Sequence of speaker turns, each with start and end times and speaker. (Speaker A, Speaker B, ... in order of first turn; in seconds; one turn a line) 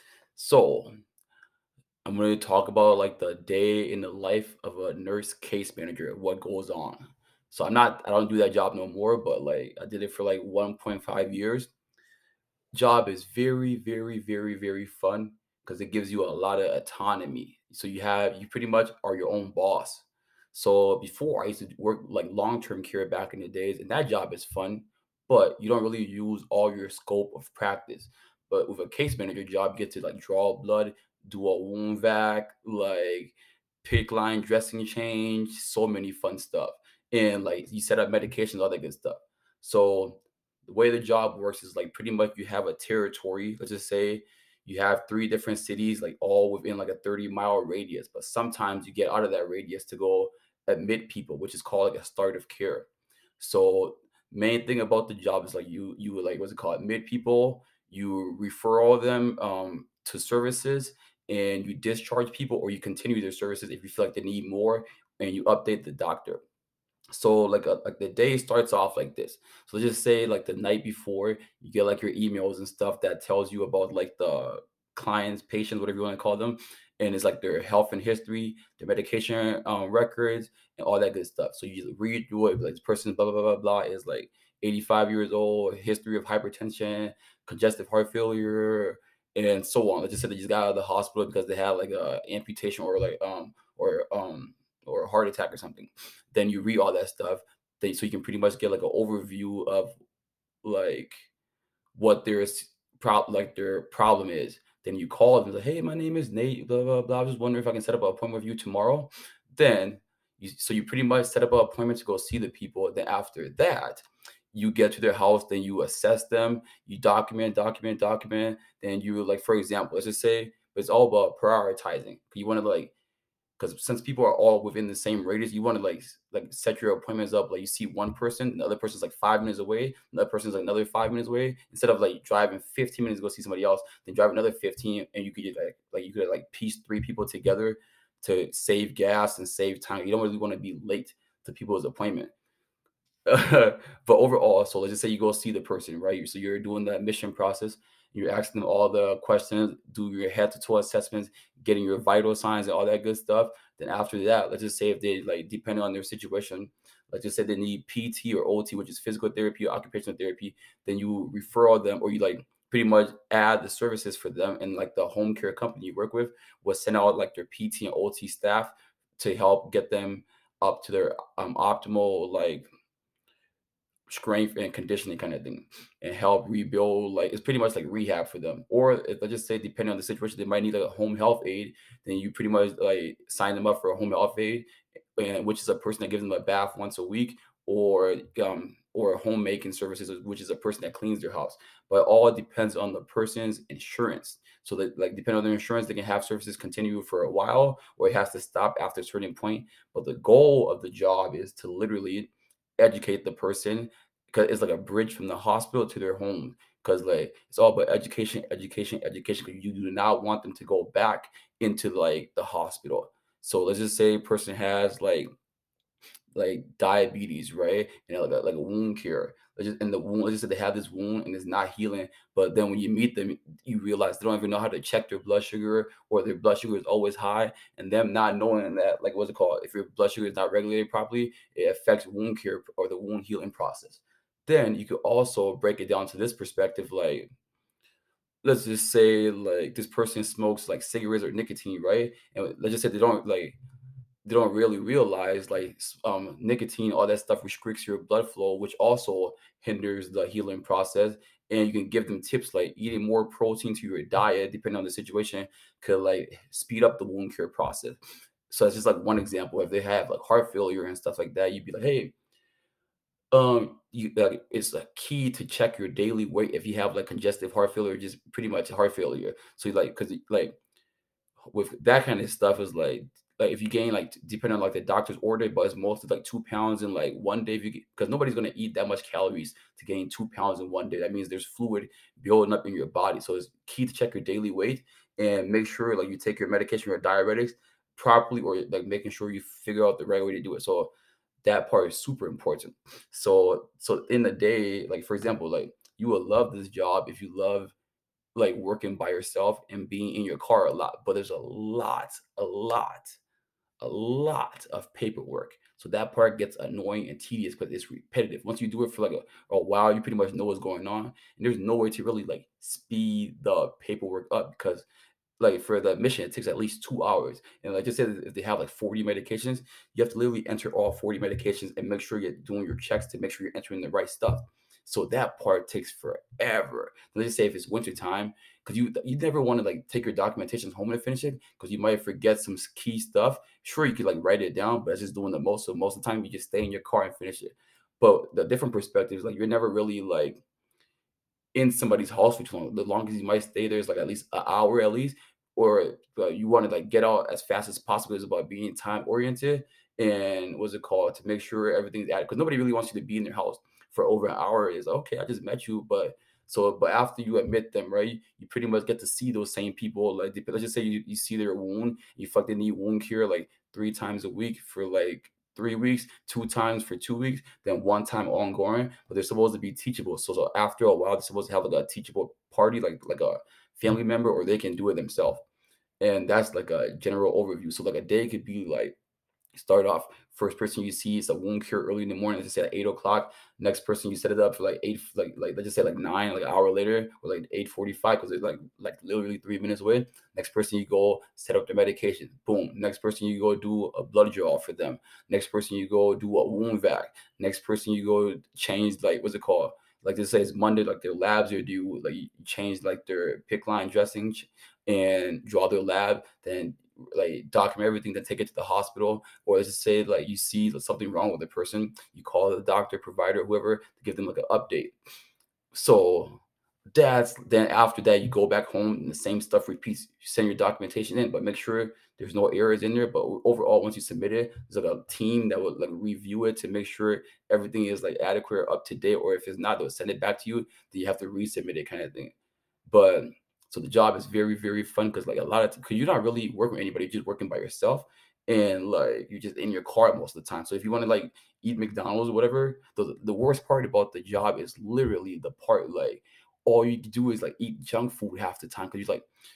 Speaker A: 0.3-0.9
Speaker A: 2.0-11.7
Speaker A: 12.7-52.9
Speaker A: 53.4-66.4
Speaker A: 67.1-99.9
Speaker A: 100.6-101.3
Speaker A: 102.0-122.9
Speaker A: 123.6-142.3
Speaker A: 143.3-172.7
Speaker A: 174.1-215.3
Speaker A: 216.3-237.3
Speaker A: 238.4-243.6
Speaker A: 244.2-262.1
Speaker A: 263.3-270.6
Speaker A: 271.5-290.9
Speaker A: 291.4-297.7
Speaker A: 298.4-303.2
Speaker A: 303.8-314.9
Speaker A: 315.4-340.4
Speaker A: 341.5-375.4
Speaker A: 376.0-379.0
Speaker A: 379.5-414.9
Speaker A: 415.7-416.4
Speaker A: 416.9-432.3
Speaker A: 432.9-449.3